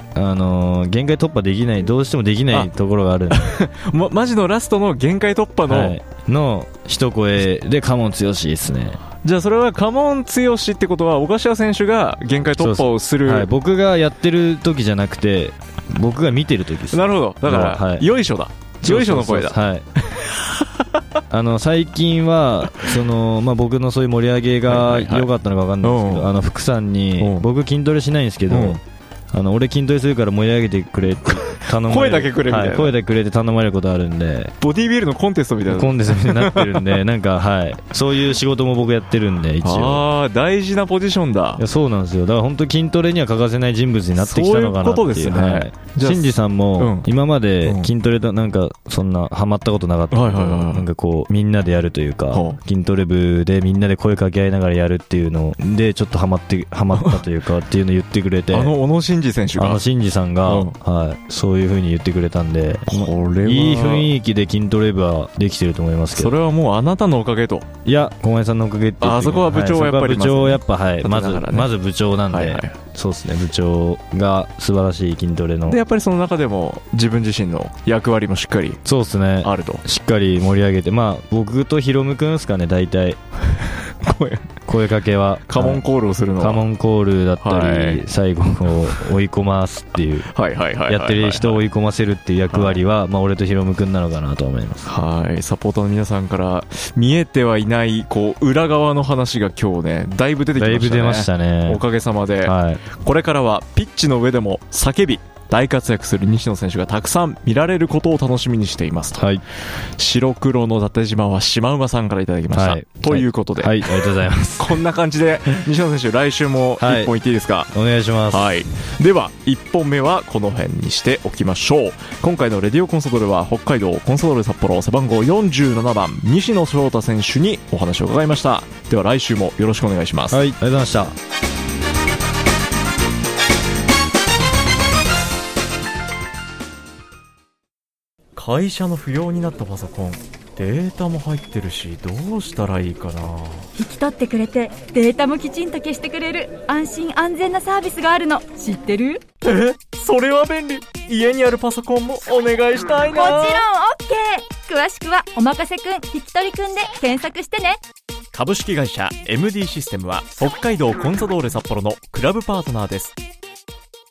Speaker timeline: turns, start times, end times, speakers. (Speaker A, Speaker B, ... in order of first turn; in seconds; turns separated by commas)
Speaker A: 0.1-3.6, Speaker B: 3.3-6.0, Speaker A: 5.7-9.0, Speaker B: 9.2-13.5, Speaker A: 12.6-18.1, Speaker B: 16.9-20.8, Speaker A: 18.8-19.8, Speaker A: 21.3-34.5, Speaker B: 24.7-25.3, Speaker B: 25.8-26.3, Speaker B: 27.2-27.4, Speaker B: 28.5-28.8, Speaker B: 31.2-33.0, Speaker B: 34.6-37.0, Speaker A: 35.7-40.0, Speaker B: 39.6-41.6, Speaker A: 41.6-58.7, Speaker B: 44.2-47.1, Speaker B: 47.6-47.9, Speaker B: 50.1-50.9, Speaker B: 52.3-52.6, Speaker B: 56.9-57.2, Speaker B: 58.5-59.8, Speaker A: 59.6-66.3, Speaker B: 60.5-60.7, Speaker B: 62.9-64.1, Speaker B: 66.1-67.7, Speaker A: 67.8-75.8, Speaker B: 69.0-71.7, Speaker B: 72.3-72.8, Speaker B: 75.7-78.8, Speaker A: 78.8-83.2, Speaker B: 79.4-79.8, Speaker B: 83.6-84.5, Speaker A: 84.7-85.8, Speaker B: 85.5-86.6, Speaker A: 86.4-90.3, Speaker B: 87.4-88.0, Speaker B: 90.2-91.6, Speaker A: 90.9-94.9, Speaker B: 92.5-92.8, Speaker B: 94.8-109.3, Speaker A: 100.5-101.8, Speaker A: 102.4-102.8, Speaker A: 109.2-109.4, Speaker B: 110.0-117.7, Speaker A: 112.5-114.8, Speaker A: 116.8-117.1, Speaker A: 117.7-118.5, Speaker B: 118.3-130.4, Speaker A: 130.3-131.1, Speaker B: 138.3-143.7, Speaker C: 143.8-149.2, Speaker B: 149.4-153.7, Speaker C: 153.1-157.8, Speaker B: 158.3-163.1